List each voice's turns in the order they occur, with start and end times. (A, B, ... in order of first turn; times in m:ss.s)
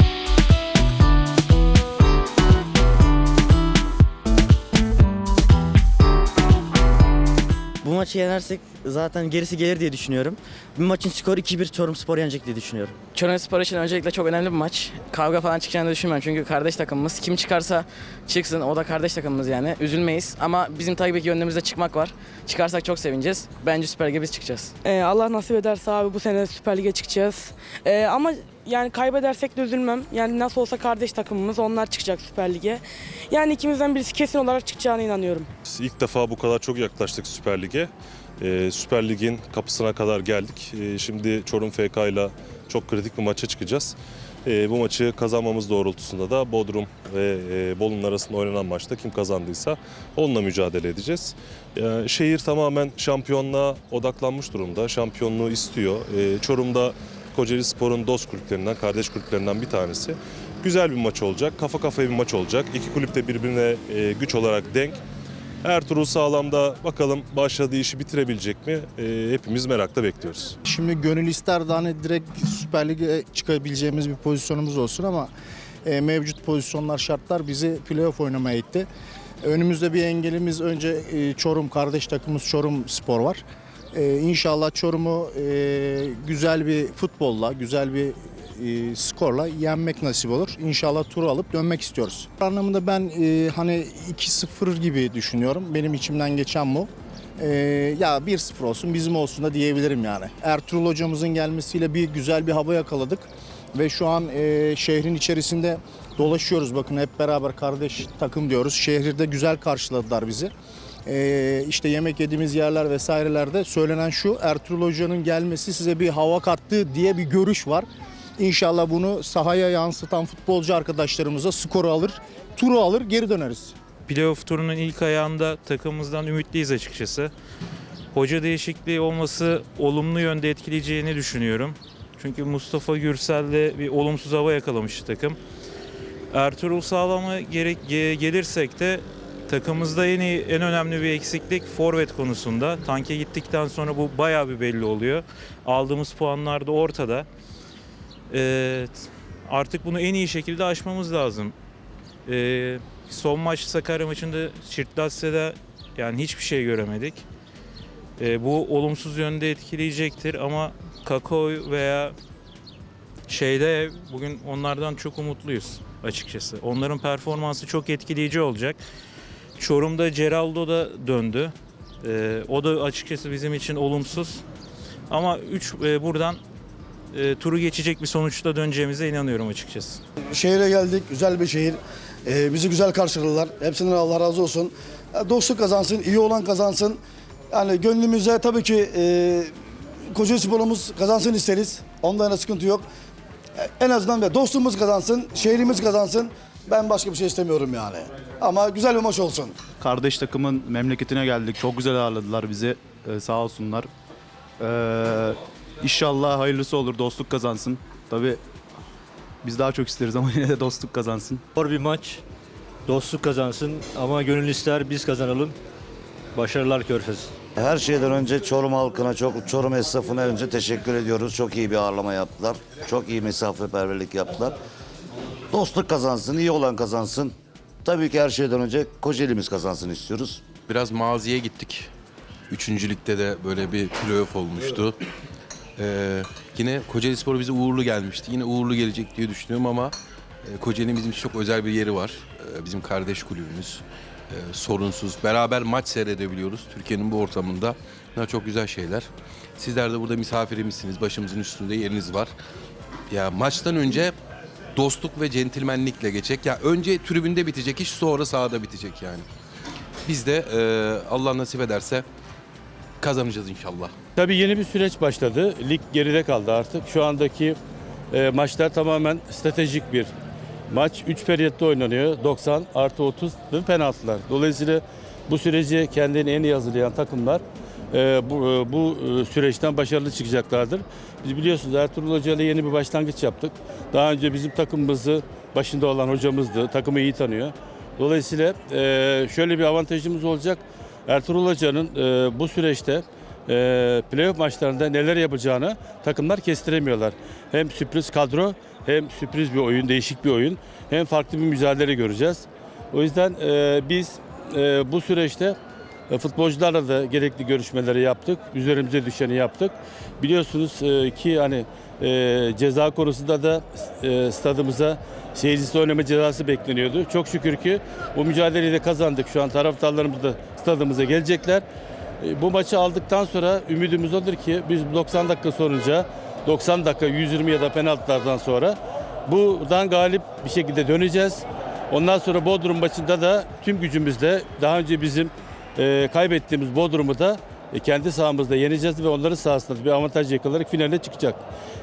0:07.8-0:09.6 A
0:07.9-0:12.9 B
0:13.1-0:24.8 A
0:24.8-0:35.5 C
0:35.7-1:05.0 D
1:05.6-1:10.6 D
1:10.6-1:15.3 E
1:15.8-1:18.9 E
1:19.4-1:50.5 E
1:51.0-1:57.8 E
1:58.4-2:03.7 E
2:04.1-2:07.3 F
2:08.1-2:15.4 F
2:16.3-2:27.3 F
2:28.3-2:31.5 F
2:32.2-2:37.2 F
2:38.2-2:42.1 F
2:43.3-2:48.8 F
2:49.6-2:54.4 F
2:55.1-2:56.4 F
2:57.1-3:00.0 F
3:00.3-3:07.0 G
3:07.5-3:09.5 G
3:10.1-3:12.8 G
3:13.6-3:19.6 G
3:19.8-3:23.9 H
3:24.6-3:28.4 H
3:29.4-3:31.4 H
3:31.6-3:32.2 I
3:32.9-3:35.6 I
3:36.3-3:37.3 I
3:37.6-3:44.6 J
3:45.5-3:50.4 J
3:50.7-3:51.9 K
3:52.5-3:55.0 K
3:55.8-4:12.3 K
4:13.1-4:14.2 K
4:14.8-4:19.3 K
4:20.0-4:22.1 K
4:23.0-4:23.9 K
4:24.2-4:27.6 L
4:28.1-4:30.1 L
4:30.7-5:05.6 L
5:06.1-5:21.6 L
5:22.2-5:41.4 L